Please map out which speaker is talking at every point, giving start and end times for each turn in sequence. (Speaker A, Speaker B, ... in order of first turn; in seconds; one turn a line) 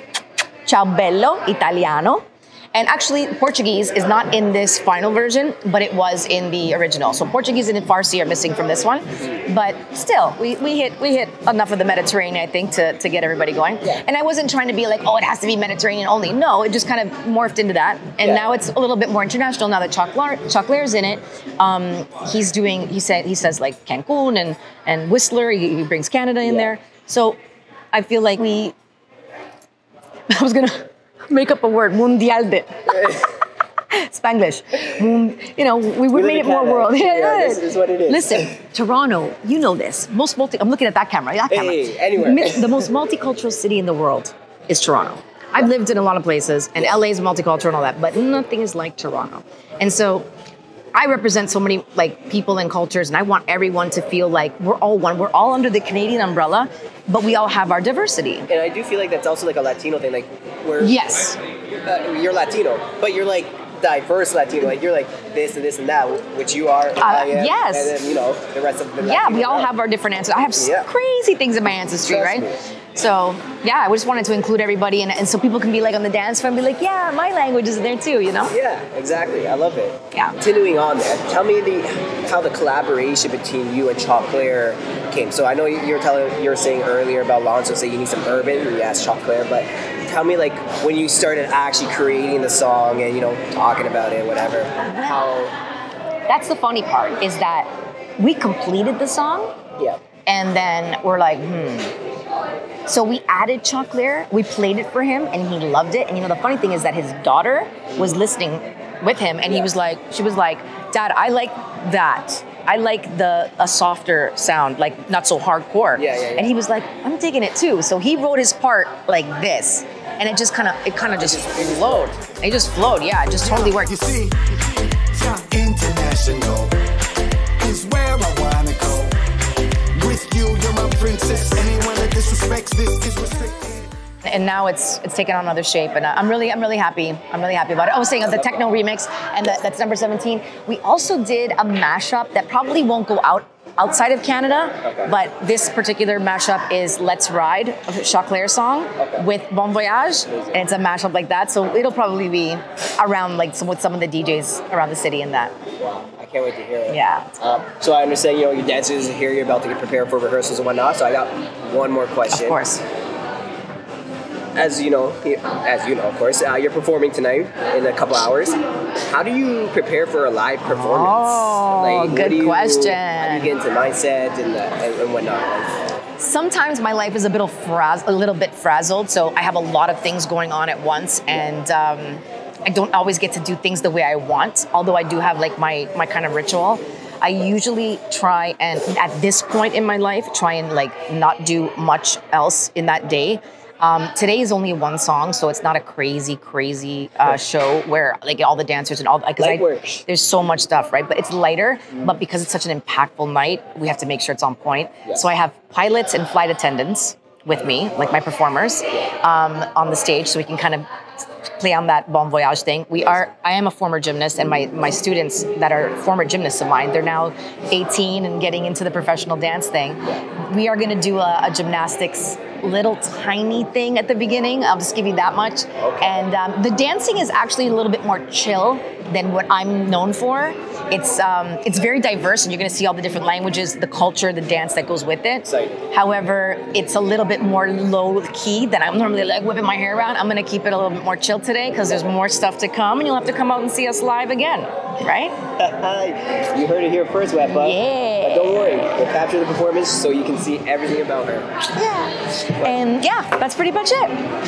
Speaker A: 0.7-27.4
Speaker B: 18.2-18.5
Speaker B: 26.4-26.7
Speaker A: 27.9-28.7
Speaker A: 30.3-33.1
Speaker A: 33.9-50.2
Speaker B: 36.1-38.5
Speaker B: 41.5-42.7
Speaker A: 50.9-58.5
Speaker B: 58.5-61.0
Speaker A: 60.8-61.4
Speaker B: 61.9-69.7
Speaker A: 67.0-68.0
Speaker A: 69.0-78.5
Speaker B: 70.6-70.9
Speaker B: 72.0-72.6
Speaker B: 78.5-95.5
Speaker A: 94.8-95.2
Speaker A: 96.3-99.5
Speaker A: 100.2-101.9
Speaker A: 102.9-124.1
Speaker B: 116.0-116.6
Speaker B: 121.1-122.1
Speaker C: 123.6-126.8
Speaker C: 127.6-129.2
Speaker C: 129.9-133.9
Speaker A: 134.2-155.5
Speaker B: 138.3-138.7
Speaker B: 144.8-145.1
Speaker B: 149.0-149.2
Speaker B: 150.3-150.6
Speaker B: 155.8-162.6
Speaker A: 156.9-157.3
Speaker A: 162.3-162.8
Speaker B: 164.5-168.6
Speaker B: 169.1-175.7
Speaker A: 170.7-173.5
Speaker A: 176.2-210.8
Speaker B: 199.4-200.0
Speaker A: 211.5-245.3
Speaker B: 225.8-226.2
Speaker B: 235.4-235.8
Speaker B: 245.6-251.5
Speaker A: 247.5-248.6
Speaker A: 251.7-254.1